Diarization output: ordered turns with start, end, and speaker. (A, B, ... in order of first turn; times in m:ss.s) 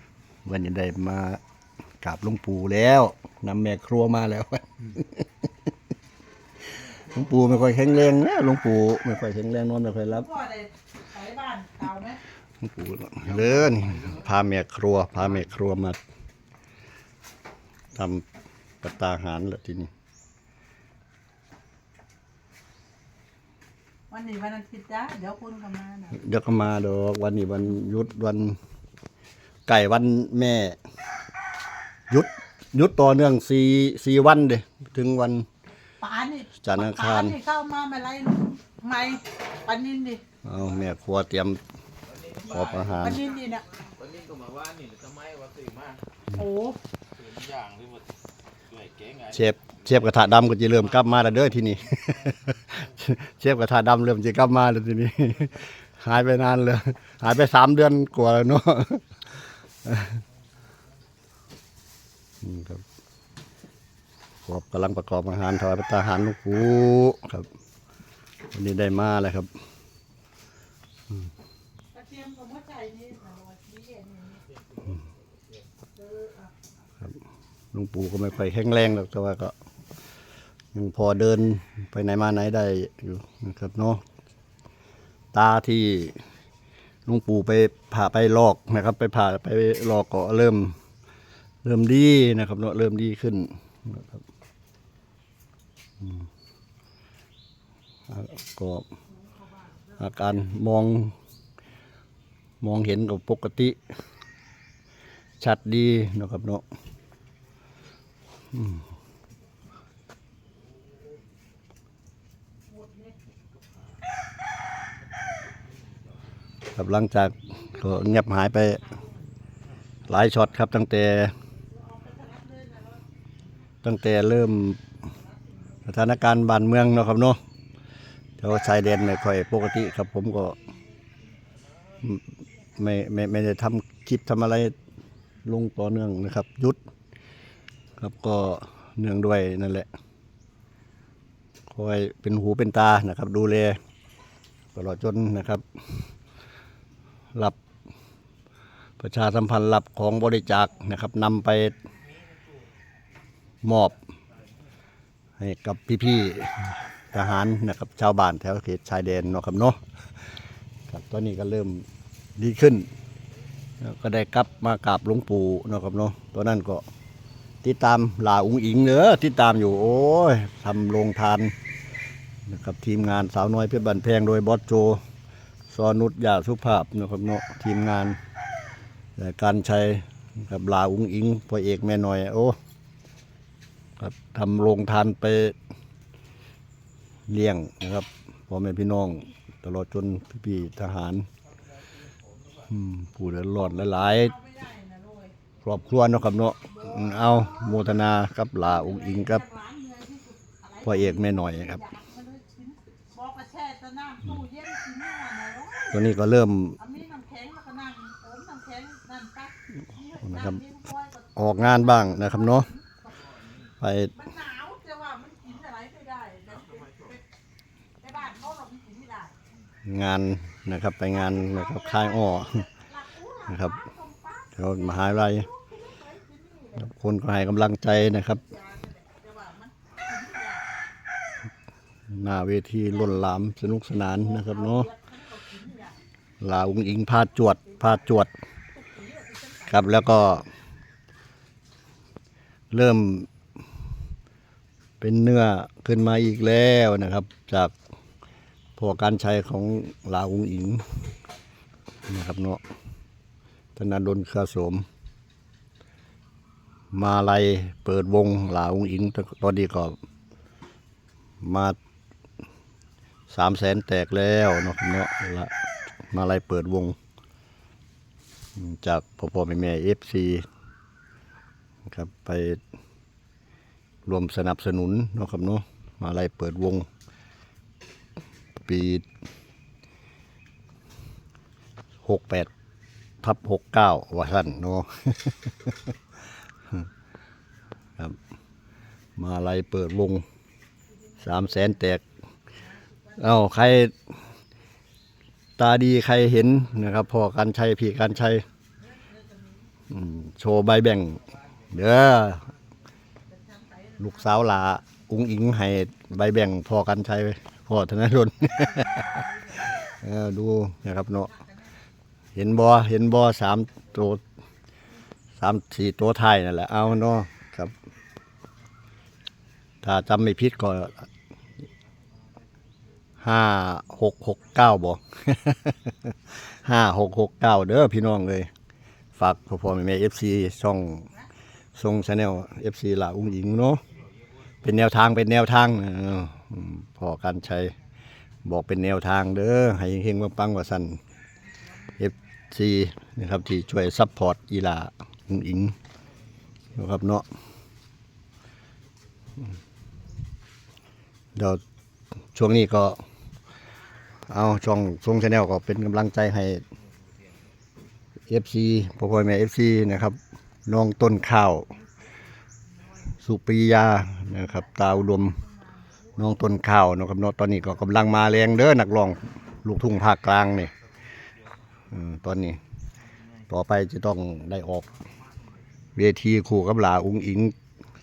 0:00.4-0:01.4 A
0:02.0-0:05.3 A
0:06.9-0:10.3 A
0:10.1-0:12.2 B
0:12.6-0:16.0 A
0:18.0-0:18.3 A
0:18.8-0:19.9 A
0:24.1-0:26.2 B
0:26.1-0:28.6 A
0:29.7-0:30.8 A
0:32.1-0:35.5 A
0:36.0-0:40.2 B
0:36.6-0:37.4 A
0:40.4-0:41.6 A
0:42.3-0:43.3 A
0:43.0-0:43.8 B
0:44.0-0:46.0 C
0:46.3-0:46.8 B
0:47.4-0:48.0 C
0:48.8-0:49.2 C
0:49.2-0:59.2 A
0:59.8-1:00.2 A
1:02.4-1:02.8 A
1:04.5-1:07.5 A
1:08.5-1:09.5 A
1:11.9-1:14.6 B
1:16.0-1:16.5 B
1:17.7-1:19.6 A
1:20.7-1:24.0 A
1:25.3-1:26.2 A
1:27.1-1:30.8 A
1:31.6-1:34.2 A
1:38.1-1:38.9 A
1:40.0-1:41.2 A
1:42.6-1:43.8 A
1:45.4-1:46.6 A
1:48.6-1:48.8 A
1:52.7-1:53.2 B
1:56.7-1:59.0 A
2:00.1-2:01.3 A
2:01.5-2:03.0 B
2:03.8-2:04.8 A
2:05.9-2:07.4 A
2:08.4-2:10.6 A
2:12.8-2:14.8 A
2:15.4-2:16.8 A
2:18.0-2:19.9 A
2:21.7-2:23.8 A
2:24.8-2:25.6 A
2:29.0-2:31.8 A
2:33.6-2:34.0 A
2:35.4-2:39.8 A
2:40.9-2:41.8 A
2:42.4-2:42.9 A
2:43.8-2:46.8 A
2:47.6-2:51.6 A
2:52.5-2:55.0 A
2:55.7-2:58.2 A
2:59.2-3:02.6 A
3:04.0-3:05.6 A
3:07.3-3:11.3 A
3:12.6-3:14.3 A
3:13.8-3:15.4 B
3:15.6-3:19.4 A
3:16.7-3:17.8 B
3:18.6-3:26.1 B
3:20.8-3:21.8 A
3:25.9-3:26.8 A
3:26.8-3:33.1 B
3:30.2-3:30.6 A
3:31.4-3:32.7 A
3:33.8-3:34.2 A
3:34.1-3:37.2 B
3:38.0-3:39.4 B
3:39.9-3:42.6 A
3:41.2-3:46.8 B
3:43.5-3:43.8 A
3:44.6-3:45.5 A
3:46.8-3:48.4 A
3:48.4-3:50.7 B
3:52.1-3:54.9 A
3:54.1-3:56.0 B
3:56.4-3:58.3 A
3:57.7-3:58.0 B
3:58.8-3:59.9 B
3:59.7-4:00.5 A
4:02.7-4:03.3 A
4:05.0-4:07.8 A
4:08.8-4:11.0 A
4:12.1-4:12.6 A
4:13.8-4:14.8 A
4:16.9-4:20.0 A
4:21.4-4:21.8 A
4:23.3-4:25.5 A
4:26.1-4:27.0 A
4:28.6-4:30.5 A
4:31.8-4:32.6 A
4:34.1-4:36.9 A
4:38.6-4:39.1 A
4:42.0-4:42.5 A
4:43.2-4:45.9 A
4:49.2-4:50.2 A
4:51.2-4:52.0 A
4:52.8-4:53.4 B
4:53.2-4:54.1 A
4:55.6-4:58.4 A
4:58.8-4:59.7 B
4:59.9-5:02.5 A
5:03.3-5:04.2 B
5:04.0-5:09.2 A
5:08.6-5:09.7 B
5:09.8-5:11.3 A
5:12.4-5:14.2 A
5:15.4-5:17.8 A
5:19.8-5:21.0 A
5:23.2-5:28.5 A
5:29.2-5:31.1 A
5:31.8-5:33.8 A
5:34.6-5:37.7 A
5:38.4-5:41.0 A
5:42.0-5:45.8 A
5:46.7-5:47.3 A
5:51.4-5:51.6 A
5:52.3-5:53.0 A
5:54.3-5:56.6 A
5:58.3-6:01.7 A
6:03.2-6:05.4 A
6:04.8-6:06.2 B
6:06.2-6:10.7 A
6:11.9-6:12.6 A
6:13.5-6:14.9 A
6:16.0-6:17.6 A